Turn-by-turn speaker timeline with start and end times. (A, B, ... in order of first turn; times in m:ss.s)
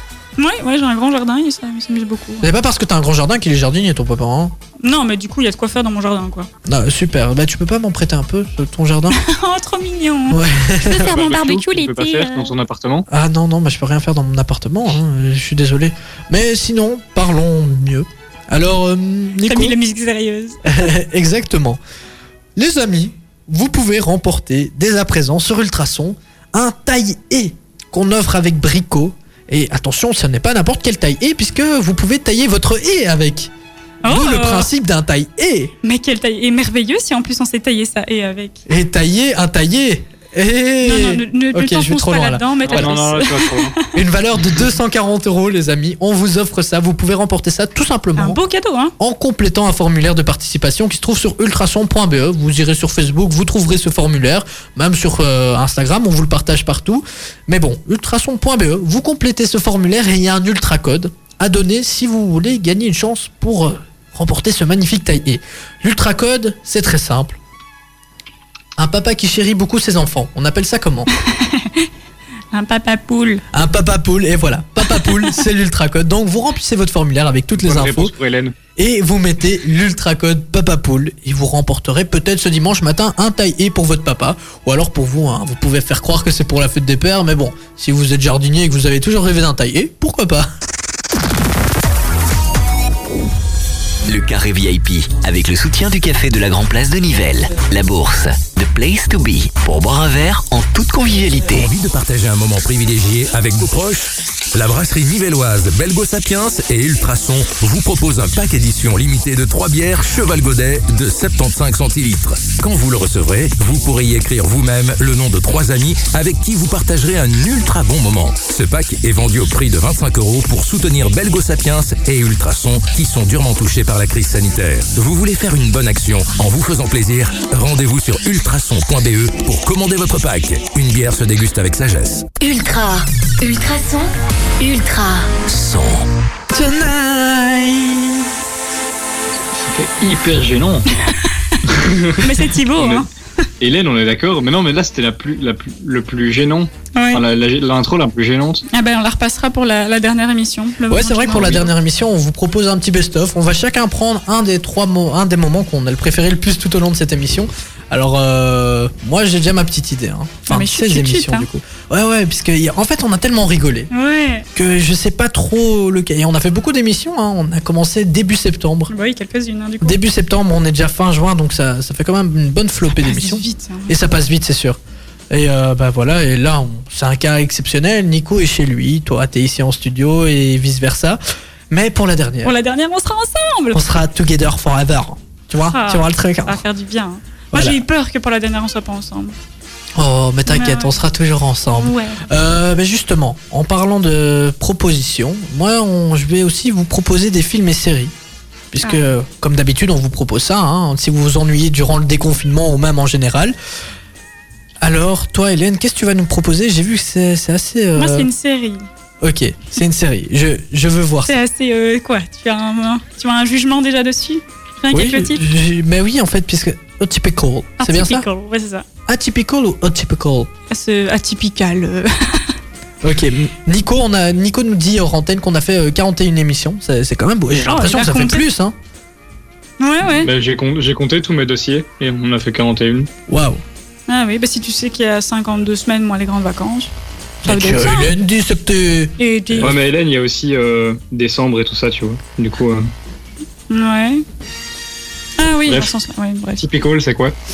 0:00.4-0:02.5 A
0:02.4-0:04.5 B
0:04.8-0:06.5 A
0:06.6-0:09.2 B
0:09.1-0:12.5 A
0:10.3-0:11.1 B
0:11.0-0:13.0 C
0:13.1-0:19.7 B
0:19.4-0:20.9 A
0:20.6-0:21.8 B
0:22.6-0:33.5 B
0:34.0-0:34.7 A
0:34.0-0:35.7 B
0:35.8-0:38.6 A
0:38.7-0:42.9 B
0:40.8-0:43.8 A
0:42.6-0:43.8 C
0:43.9-0:48.4 B
0:48.2-0:48.9 A
0:49.0-1:07.4 B
1:08.8-1:11.1 B
1:11.2-1:11.9 A
1:12.5-1:13.4 A
1:13.5-1:18.1 B
1:14.8-1:15.4 A
1:17.6-1:18.5 C
1:18.8-1:30.5 B
1:34.1-1:41.7 D
1:41.5-2:12.2 E
2:12.4-2:15.3 F
2:15.5-2:16.0 D
2:16.5-2:18.2 B
2:19.5-2:20.9 C
2:21.1-2:21.6 A
2:21.7-2:23.1 C
2:22.2-2:23.1 A
2:23.6-2:28.6 C
2:26.9-2:27.2 A
2:28.7-2:31.7 A
2:30.9-2:43.9 B
2:31.4-2:31.6 C
2:40.5-2:41.5 A
2:43.9-2:44.5 A
2:44.5-2:48.9 B
2:48.9-2:50.0 A
2:49.8-2:54.8 B
2:52.9-2:54.0 A
2:55.3-3:02.5 B
3:02.4-3:03.8 A
3:03.7-3:06.6 B
3:05.7-3:09.4 A
3:07.5-3:07.8 B
3:10.0-3:18.1 B
3:10.4-3:11.0 A
3:11.7-3:12.2 A
3:18.7-3:23.5 B
3:18.8-3:19.1 A
3:24.8-3:28.3 B
3:27.9-3:28.9 A
3:29.2-3:31.3 B
3:31.2-3:35.4 A
3:34.9-3:38.2 B
3:37.8-3:38.8 A
3:39.1-3:40.5 B
3:40.7-3:42.5 A
3:43.0-3:48.7 B
3:47.6-3:48.4 A
3:49.8-3:50.3 A
3:50.1-3:53.1 C
3:53.3-3:53.6 B
3:54.1-3:56.9 A
3:57.4-3:58.1 A
3:57.4-3:59.7 B
3:59.2-3:59.7 A
3:59.6-4:02.9 C
4:03.7-4:04.2 A
4:05.4-4:06.7 A
4:05.6-4:05.9 C
4:06.6-4:07.3 C